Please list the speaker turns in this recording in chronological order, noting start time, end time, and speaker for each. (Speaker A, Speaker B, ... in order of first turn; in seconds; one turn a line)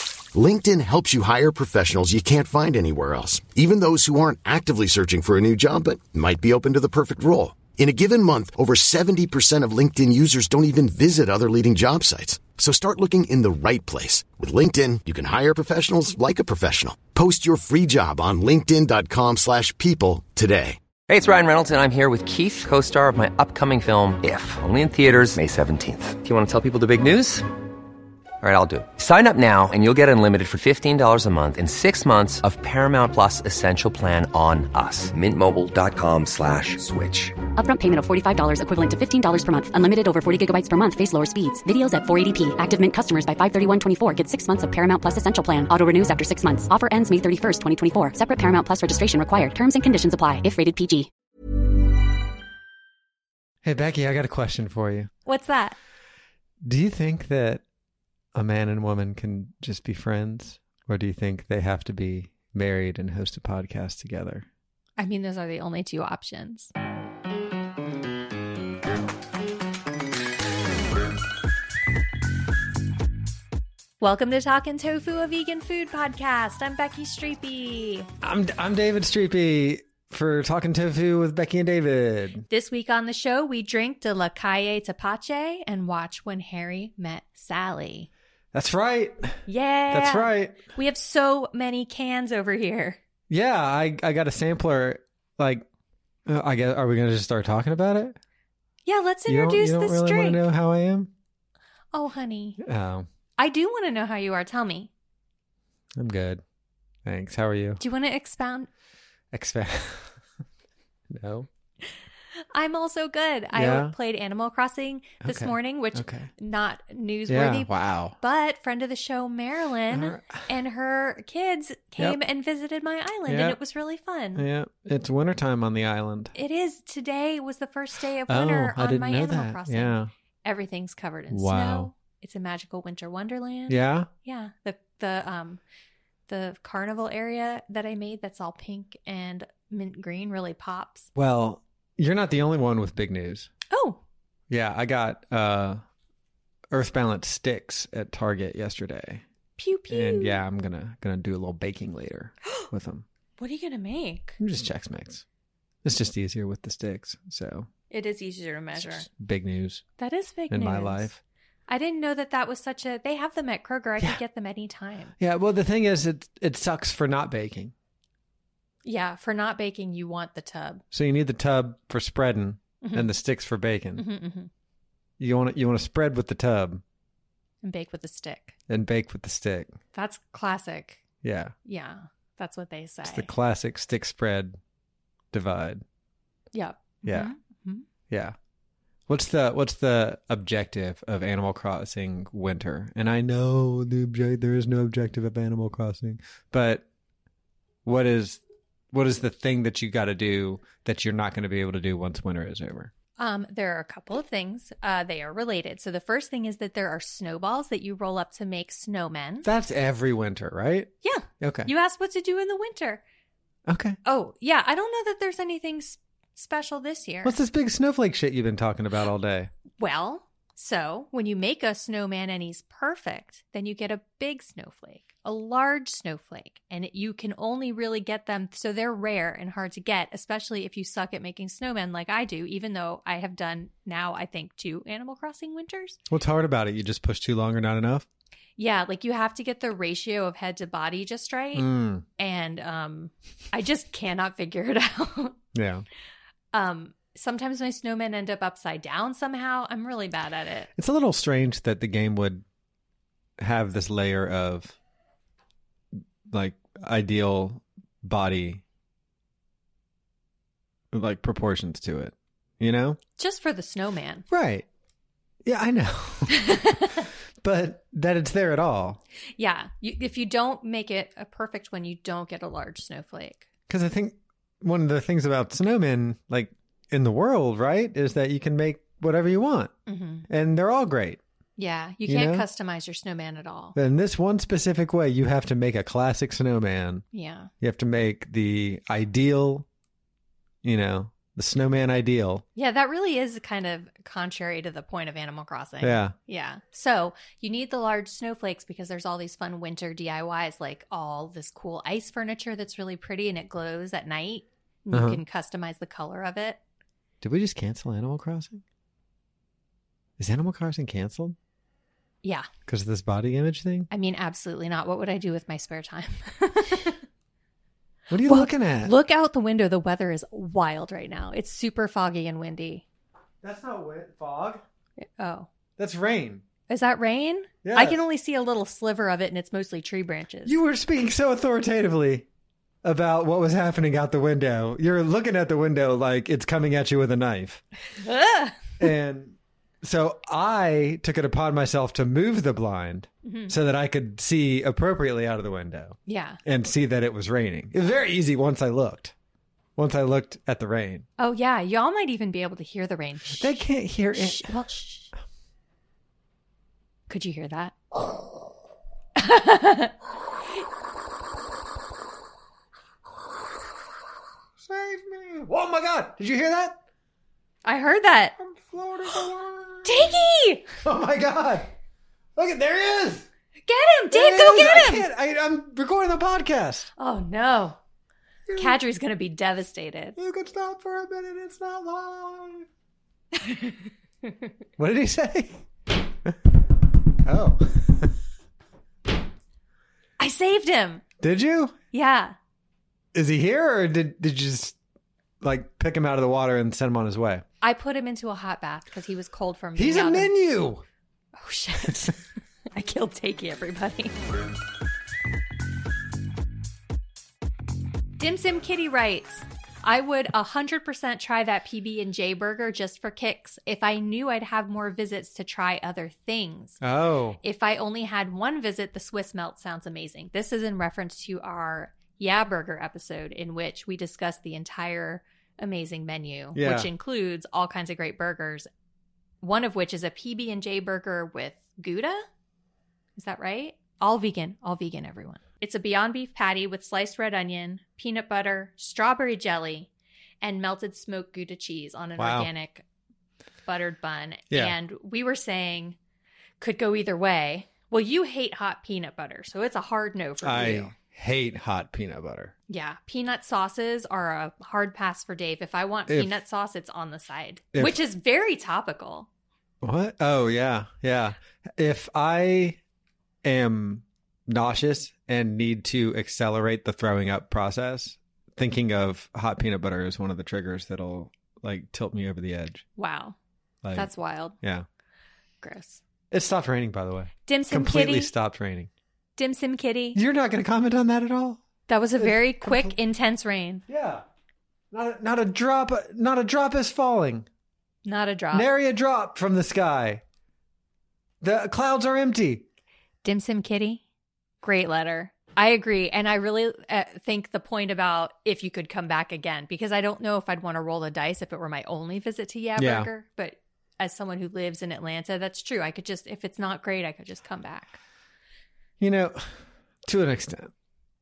Speaker A: 0.3-20.8
Speaker B: 21.1-27.4
Speaker B: 28.4-37.4
Speaker C: 37.6-51.1
Speaker D: 53.6-55.1
Speaker E: 55.3-55.8
Speaker D: 56.6-57.6
Speaker D: 58.3-64.5
Speaker E: 65.0-66.7
Speaker E: 74.0-78.1
Speaker D: 78.2-82.5
Speaker E: 82.5-88.1
Speaker D: 88.5-89.4
Speaker E: 89.5-93.0
Speaker D: 89.9-90.6
Speaker D: 93.3-95.7
Speaker D: 96.3-98.2
Speaker E: 98.9-100.4
Speaker D: 99.3-101.1
Speaker E: 101.9-102.6
Speaker D: 102.6-103.1
Speaker E: 103.4-104.9
Speaker D: 106.0-106.4
Speaker D: 107.0-107.8
Speaker E: 107.8-108.7
Speaker D: 109.3-110.2
Speaker D: 111.1-111.5
Speaker E: 112.5-124.5
Speaker D: 113.5-114.0
Speaker D: 115.2-116.3
Speaker D: 117.3-118.2
Speaker D: 119.9-120.5
Speaker D: 123.3-123.6
Speaker D: 124.4-126.3
Speaker E: 126.3-135.6
Speaker D: 128.3-130.1
Speaker D: 131.3-131.9
Speaker D: 133.7-134.1
Speaker E: 136.3-141.1
Speaker D: 141.2-143.5
Speaker E: 143.7-144.0
Speaker D: 144.5-145.8
Speaker D: 146.7-149.2
Speaker E: 149.6-150.4
Speaker D: 149.9-153.1
Speaker E: 153.4-154.4
Speaker D: 154.4-155.2
Speaker D: 155.8-157.7
Speaker E: 157.9-159.1
Speaker D: 158.8-159.8
Speaker E: 160.0-161.1
Speaker D: 160.5-161.2
Speaker E: 161.7-165.1
Speaker D: 165.2-167.7
Speaker E: 168.8-170.8
Speaker D: 170.9-174.1
Speaker E: 172.8-173.1
Speaker E: 174.0-174.5
Speaker D: 175.2-176.8
Speaker E: 177.6-178.6
Speaker D: 178.7-179.8
Speaker E: 179.9-181.0
Speaker D: 181.2-181.5
Speaker E: 181.7-183.3
Speaker D: 183.0-184.6
Speaker D: 185.3-185.8
Speaker E: 186.5-187.8
Speaker D: 187.1-187.3
Speaker D: 188.1-188.4
Speaker D: 189.1-196.8
Speaker D: 197.8-198.4
Speaker D: 198.9-202.9
Speaker E: 203.2-209.5
Speaker D: 209.4-211.7
Speaker E: 211.0-213.0
Speaker D: 213.7-214.0
Speaker E: 214.1-217.4
Speaker D: 217.2-219.5
Speaker E: 219.8-236.0
Speaker D: 236.1-238.1
Speaker E: 238.6-245.4
Speaker D: 241.6-242.1
Speaker D: 245.5-245.8
Speaker E: 246.5-250.7
Speaker D: 250.8-252.4
Speaker D: 253.4-254.8
Speaker D: 256.3-258.6
Speaker D: 260.9-263.0
Speaker E: 263.2-264.3
Speaker D: 264.3-264.7
Speaker D: 265.4-266.8
Speaker E: 266.3-267.1
Speaker D: 267.4-269.0
Speaker E: 269.4-273.5
Speaker D: 273.7-279.7
Speaker E: 279.9-280.3
Speaker D: 280.3-281.2
Speaker E: 281.6-283.8
Speaker D: 282.1-282.5
Speaker D: 283.8-287.1
Speaker E: 287.1-287.5
Speaker D: 287.6-289.7
Speaker D: 290.6-292.4
Speaker E: 292.6-306.6
Speaker D: 295.8-296.1
Speaker D: 304.9-305.2
Speaker D: 307.2-308.6
Speaker D: 310.2-311.4
Speaker D: 312.7-313.9
Speaker E: 313.9-317.0
Speaker D: 318.1-318.9
Speaker E: 318.2-322.9
Speaker D: 323.4-324.6
Speaker E: 325.0-325.5
Speaker D: 325.8-326.4
Speaker E: 326.7-330.6
Speaker D: 327.6-328.0
Speaker D: 330.4-332.3
Speaker D: 332.8-337.6
Speaker E: 338.0-338.6
Speaker D: 338.8-349.1
Speaker E: 343.2-343.6
Speaker E: 346.1-346.4
Speaker D: 349.8-351.1
Speaker E: 351.2-353.5
Speaker D: 353.3-354.5
Speaker E: 354.1-355.1
Speaker E: 357.1-357.8
Speaker E: 359.2-359.9
Speaker D: 364.6-366.8
Speaker E: 367.6-368.4
Speaker D: 368.4-370.2
Speaker E: 369.9-370.7
Speaker D: 370.8-371.7
Speaker D: 372.4-373.3
Speaker E: 373.7-375.1
Speaker D: 373.9-376.9
Speaker E: 377.0-377.8
Speaker D: 378.5-378.8
Speaker E: 378.6-380.2
Speaker D: 380.2-382.7
Speaker E: 383.4-383.9
Speaker D: 384.8-385.6
Speaker D: 387.2-388.1
Speaker E: 390.2-391.0
Speaker D: 391.2-391.8
Speaker E: 391.9-392.4
Speaker D: 393.1-394.8
Speaker D: 395.4-397.4
Speaker E: 397.6-400.3
Speaker D: 399.8-400.8
Speaker E: 401.4-402.2
Speaker E: 402.7-404.1
Speaker E: 408.2-416.8
Speaker D: 416.8-417.4
Speaker E: 417.4-428.7
Speaker D: 426.5-426.9
Speaker E: 429.4-432.2
Speaker E: 433.2-439.9
Speaker E: 440.4-442.8
Speaker D: 442.2-442.5
Speaker E: 443.7-446.0
Speaker D: 444.5-444.8
Speaker E: 446.6-450.9
Speaker D: 450.4-452.5
Speaker E: 452.7-459.3
Speaker D: 456.1-456.4
Speaker D: 457.7-458.0
Speaker D: 459.8-462.8
Speaker D: 463.4-472.9
Speaker E: 473.0-473.4
Speaker D: 473.8-474.9
Speaker E: 473.9-474.6
Speaker E: 475.6-476.0
Speaker D: 476.3-478.9
Speaker E: 477.5-478.3
Speaker E: 479.4-480.2
Speaker D: 480.1-481.6
Speaker E: 481.9-483.8
Speaker D: 482.2-483.0
Speaker D: 483.9-484.2
Speaker D: 484.9-487.5
Speaker E: 488.1-488.7
Speaker D: 488.5-490.2
Speaker D: 491.4-492.7
Speaker E: 493.2-494.0
Speaker E: 494.6-508.0
Speaker D: 502.8-503.1
Speaker D: 509.0-510.7